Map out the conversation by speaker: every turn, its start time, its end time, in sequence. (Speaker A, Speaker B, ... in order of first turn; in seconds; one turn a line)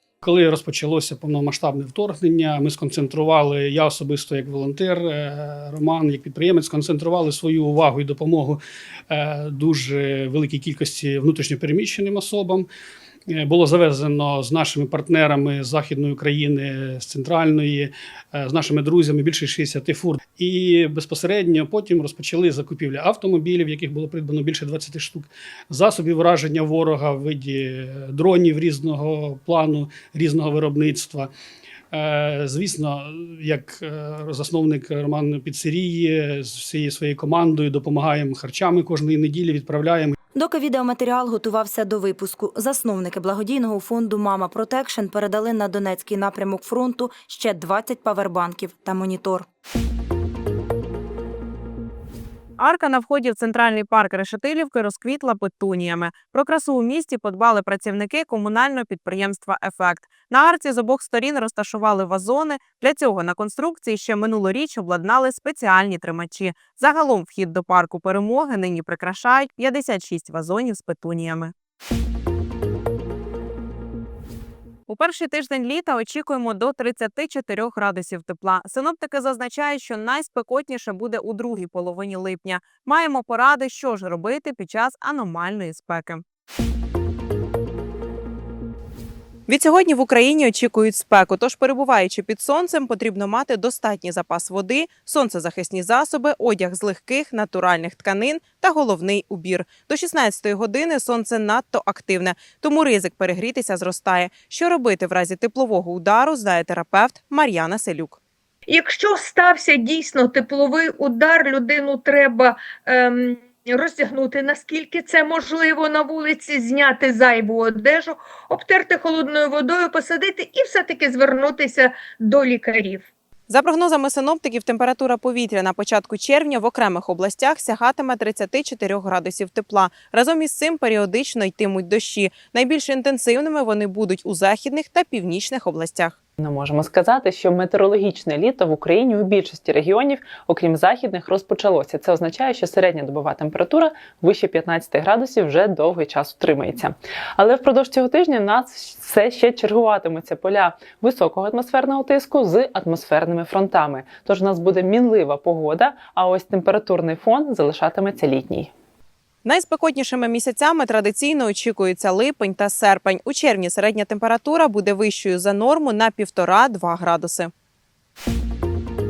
Speaker A: 0.2-12.7
Speaker A: 13.3-31.3
Speaker A: 31.9-40.1
Speaker B: 40.4-49.5
Speaker C: 52.6-71.5
Speaker C: 74.9-86.2
Speaker C: 89.5-108.2
Speaker D: 108.7-123.0
Speaker C: 123.5-136.2
Speaker E: 136.4-158.7
Speaker C: 159.4-167.5